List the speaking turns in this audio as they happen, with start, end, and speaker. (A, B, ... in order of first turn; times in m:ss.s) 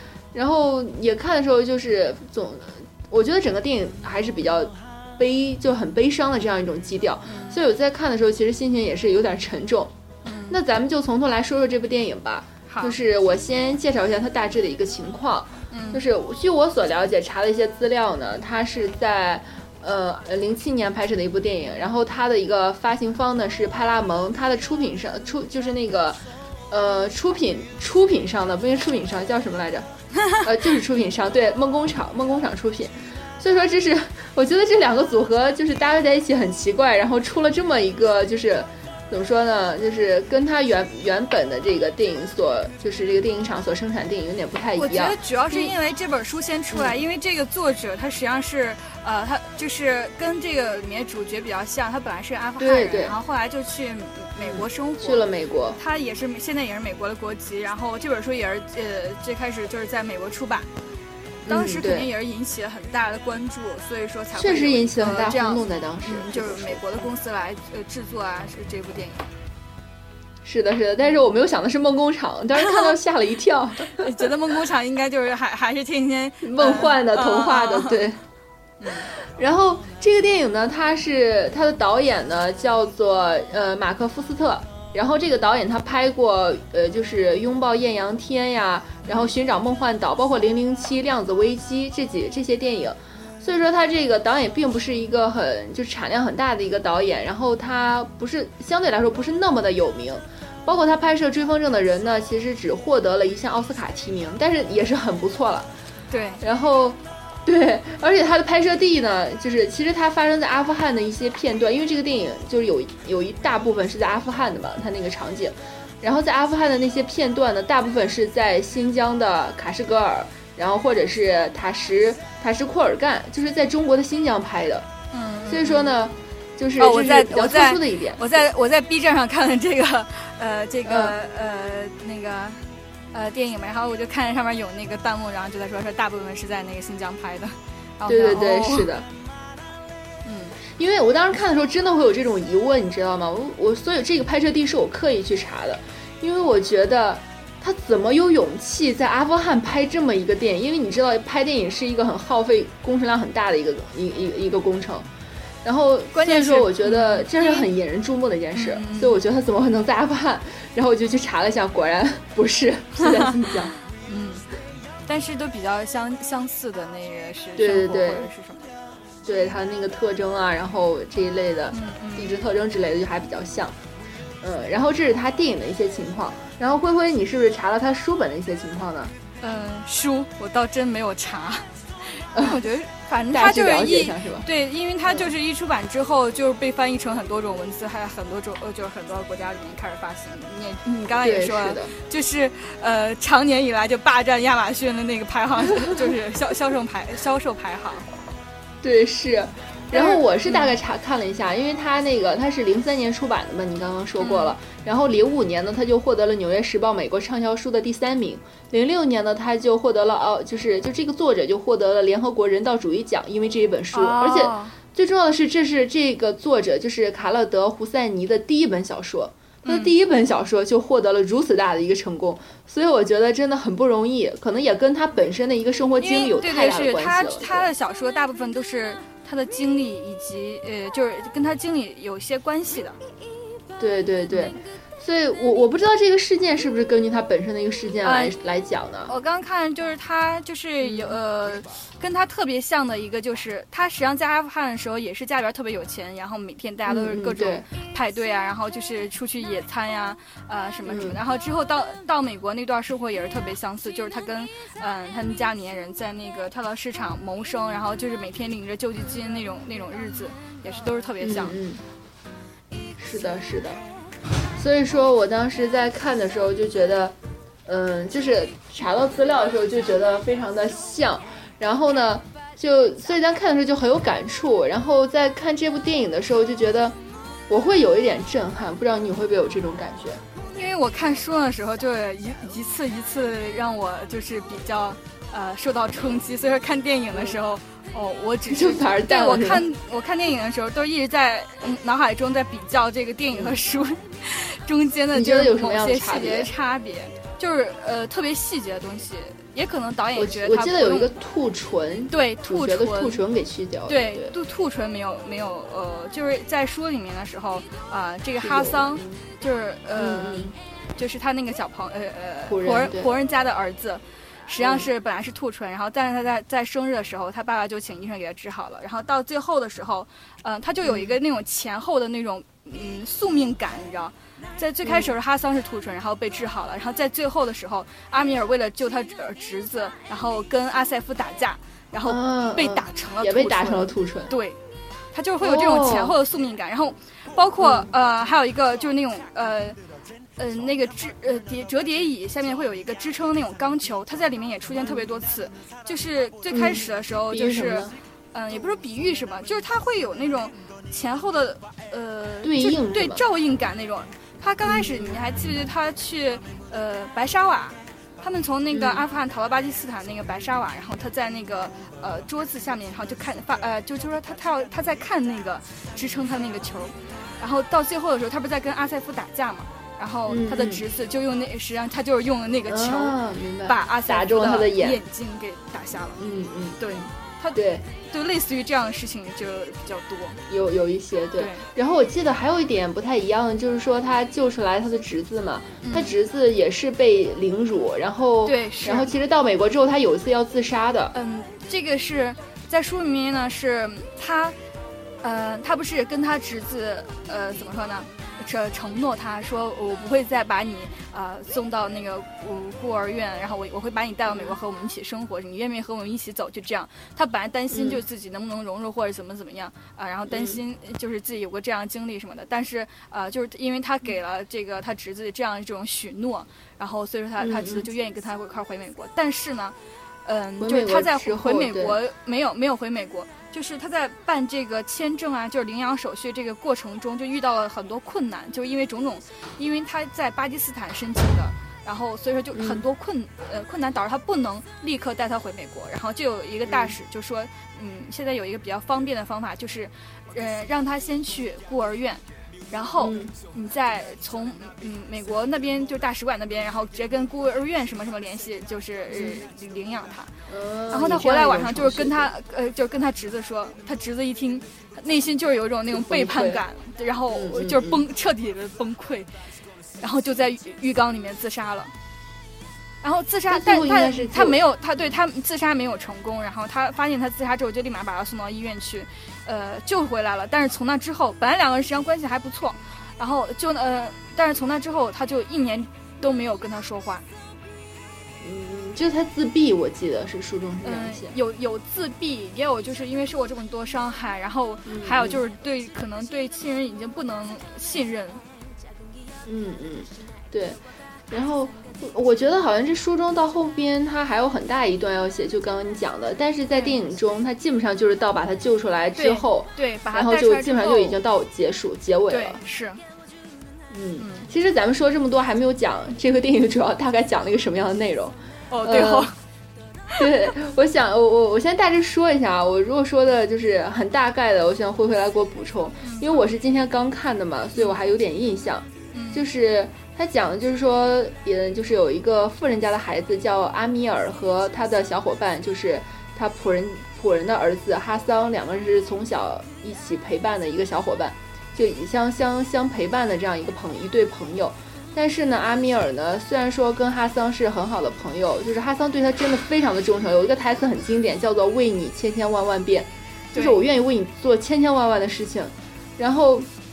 0:00.3-0:09.9 A
0:07.2-0:07.6 B
0:10.2-0:10.6 B
0:10.5-0:45.7 A
0:12.7-0:13.0 B
0:15.7-0:16.0 B
0:44.7-1:00.7 B
0:52.6-0:53.1 A
0:54.4-0:55.8 A
1:01.4-1:02.1 A
1:01.5-1:09.3 B
1:04.3-1:06.8 A
1:10.4-1:14.0 A
1:12.6-1:12.9 B
1:13.9-1:18.0 B
1:16.4-1:18.2 A
1:18.8-1:19.1 B
1:18.8-1:45.7 A
1:46.1-1:46.4 B
1:46.4-2:04.8 A
2:05.1-2:05.9 B
2:05.5-2:08.4 A
2:06.8-2:18.9 B
2:10.8-2:11.1 A
2:18.1-2:19.1 A
2:20.2-2:20.6 B
2:20.6-2:35.0 A
2:35.6-2:43.7 A
2:36.1-2:37.6 B
2:38.5-2:39.2 B
2:44.1-2:44.5 B
2:45.1-2:48.7 B
2:47.6-2:48.3 A
2:49.2-2:53.7 A
2:51.7-2:52.3 B
2:54.4-2:59.1 A
2:59.4-3:18.1 B
3:03.3-3:04.5 A
3:11.2-3:11.9 A
3:18.8-3:47.7 A
3:19.9-3:20.7 B
3:24.2-3:24.5 B
3:33.9-3:34.8 B
3:39.6-3:39.9 B
3:46.0-3:53.0 B
3:53.8-3:59.1 A
3:58.0-3:58.4 B
3:59.1-4:21.6 B
4:00.8-4:01.2 A
4:06.8-4:07.6 A
4:10.8-4:11.2 A
4:21.2-4:21.8 A
4:23.0-4:23.8 A
4:24.6-4:27.1 A
4:27.6-4:37.0 A
4:37.5-4:40.2 A
4:40.5-5:01.1 B
4:48.5-4:49.6 A
4:55.1-4:56.5 A
5:00.2-5:04.3 A
5:02.1-5:03.2 B
5:03.9-5:34.6 B
5:08.4-5:09.2 A
5:10.0-5:10.5 A
5:12.4-5:13.1 A
5:14.6-5:14.8 A
5:20.8-5:21.2 A
5:24.8-5:25.1 A
5:32.1-5:34.3 A
5:35.1-5:39.8 B
5:35.4-5:36.2 A
5:37.6-5:37.9 A
5:40.4-6:16.2 B
5:46.5-5:47.9 A
5:52.4-5:53.2 A
5:54.6-5:55.2 A
5:58.7-5:59.0 A
6:10.3-6:10.8 A
6:12.7-6:15.0 A
6:16.2-6:16.8 A
6:16.8-6:20.4 B
6:17.5-6:17.8 A
6:20.5-6:31.1 A
6:21.4-6:21.6 B
6:25.8-6:26.2 B
6:28.4-6:29.1 B
6:31.1-6:34.6 B
6:35.2-7:30.3 B
6:47.7-6:48.0 A
6:50.3-6:50.6 A
6:57.4-6:57.8 A
7:00.6-7:02.0 A
7:12.5-7:12.8 A
7:16.6-7:16.9 A
7:23.0-7:23.3 A
7:29.1-7:29.4 A
7:30.5-7:32.3 A
7:30.9-7:39.3 B
7:35.9-7:36.6 A
7:37.3-7:38.0 A
7:40.0-7:41.9 B
7:43.0-7:57.2 B
7:43.5-7:44.6 A
7:58.4-8:01.3 A
8:00.8-8:08.4 B
8:04.8-8:05.4 A
8:09.4-8:10.8 A
8:11.3-8:22.6 A
8:19.2-8:21.2 B
8:22.3-8:23.0 B
8:23.9-8:29.3 A
8:24.2-8:24.5 B
8:28.7-8:29.4 B
8:30.2-9:06.7 A
8:39.1-8:39.4 B